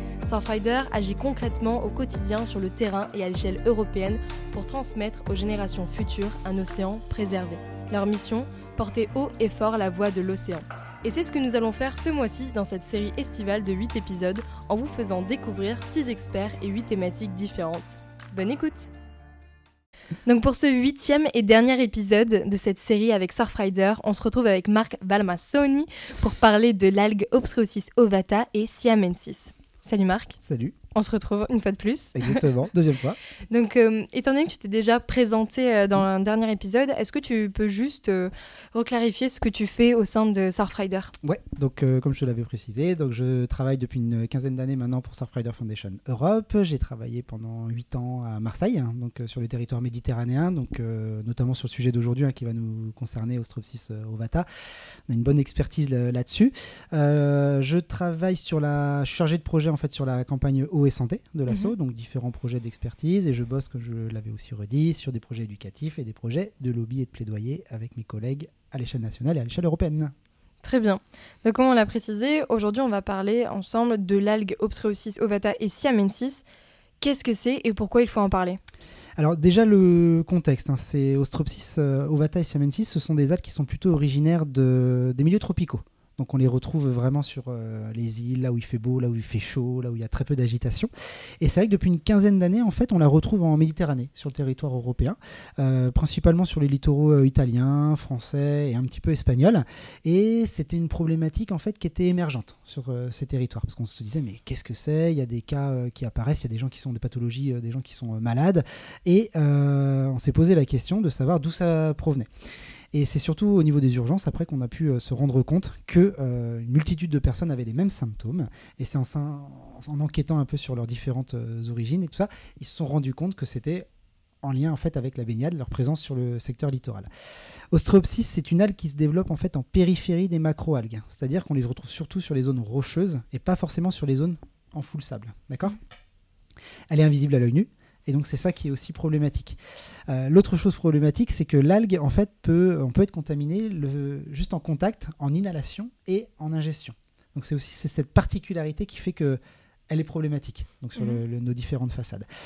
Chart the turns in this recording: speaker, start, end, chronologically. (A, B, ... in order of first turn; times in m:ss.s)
0:00.2-0:18.9 A
0:20.2-0:30.4 A
0:30.4-0:30.8 B
0:30.9-0:32.4 A
0:32.1-0:33.2 B
0:33.5-0:41.1 A
0:41.2-0:54.4 B
0:55.1-1:10.1 B
1:01.5-1:01.7 A
1:10.6-1:16.4 A
1:17.0-1:18.6 A
1:19.2-1:52.3 B
1:52.9-2:03.8 B
2:04.4-2:07.1 B
2:07.7-2:15.8 B
2:16.9-2:32.2 B
2:31.0-2:31.2 A